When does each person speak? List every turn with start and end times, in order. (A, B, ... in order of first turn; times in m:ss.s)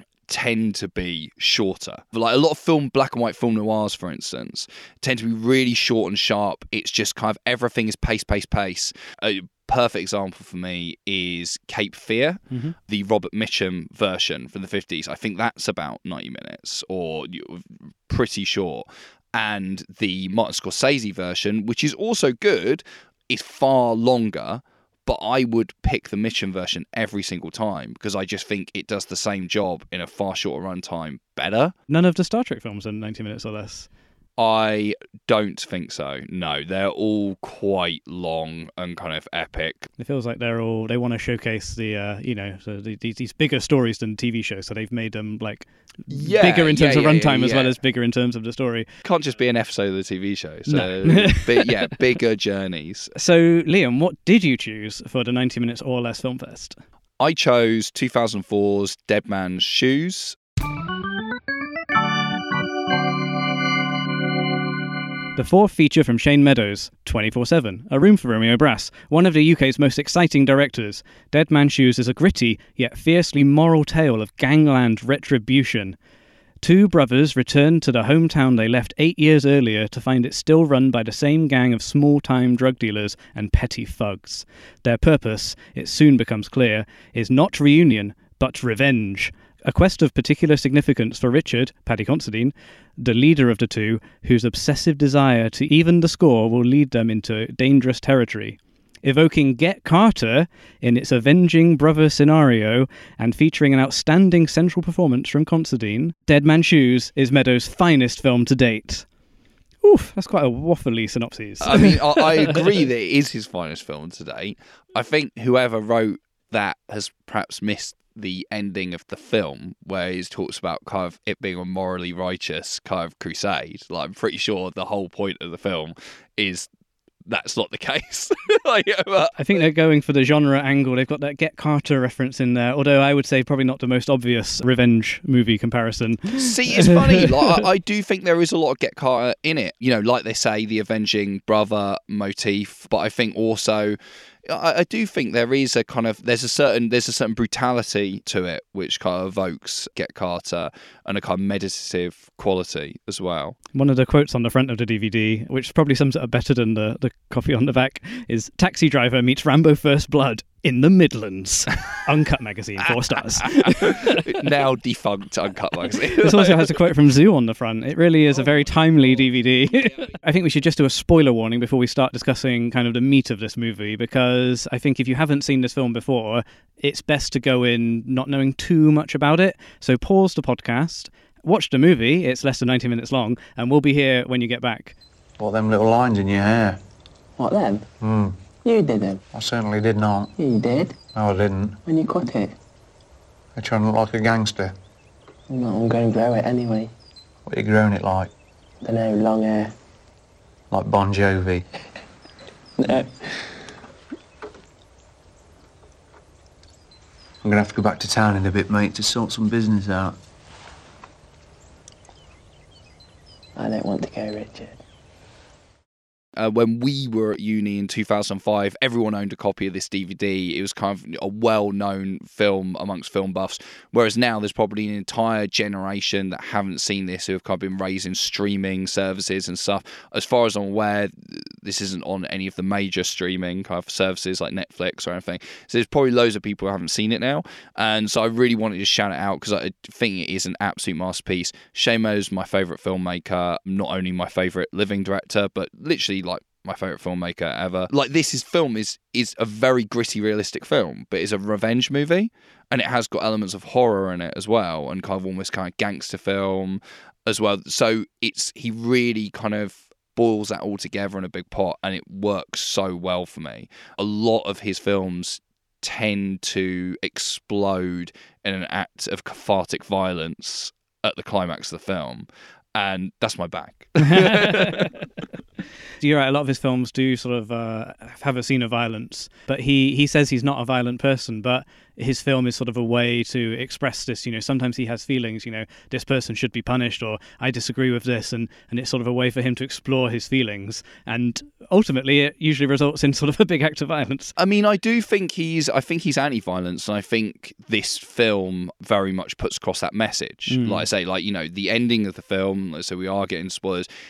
0:00.3-0:31.8 A
0:12.5-0:12.8 B
0:31.9-0:33.9 B
0:34.4-0:39.9 A
0:40.0-0:48.9 B
0:46.1-0:47.8 A
0:49.0-0:53.1 A
0:50.7-0:51.8 B
0:53.2-0:56.8 B
0:57.2-1:00.4 A
1:05.4-1:16.0 B
1:16.6-1:49.1 B
1:49.8-1:52.6 B
1:51.6-2:06.7 A
2:07.3-2:09.6 A
2:09.4-2:17.5 B
2:16.4-2:33.6 A
2:33.7-2:44.5 B
2:43.4-2:46.7 A
2:46.1-3:05.0 B
3:05.4-3:06.8 C
3:07.4-3:07.9 D
3:08.0-3:08.4 C
3:08.6-3:09.2 D
3:09.3-3:10.3 C
3:10.4-3:11.0 D
3:11.2-3:11.8 C
3:11.8-3:12.5 D
3:13.6-3:14.7 C
3:15.5-3:16.9 D
3:17.5-3:18.3 C
3:18.8-3:19.7 D
3:20.7-3:21.6 C
3:22.8-3:23.6 D
3:27.4-3:30.2 C
3:33.6-3:34.8 D
3:36.4-4:34.9 A
4:34.0-4:34.9 B
4:36.0-4:54.4 B
4:54.4-5:03.9 A
5:00.5-5:00.8 B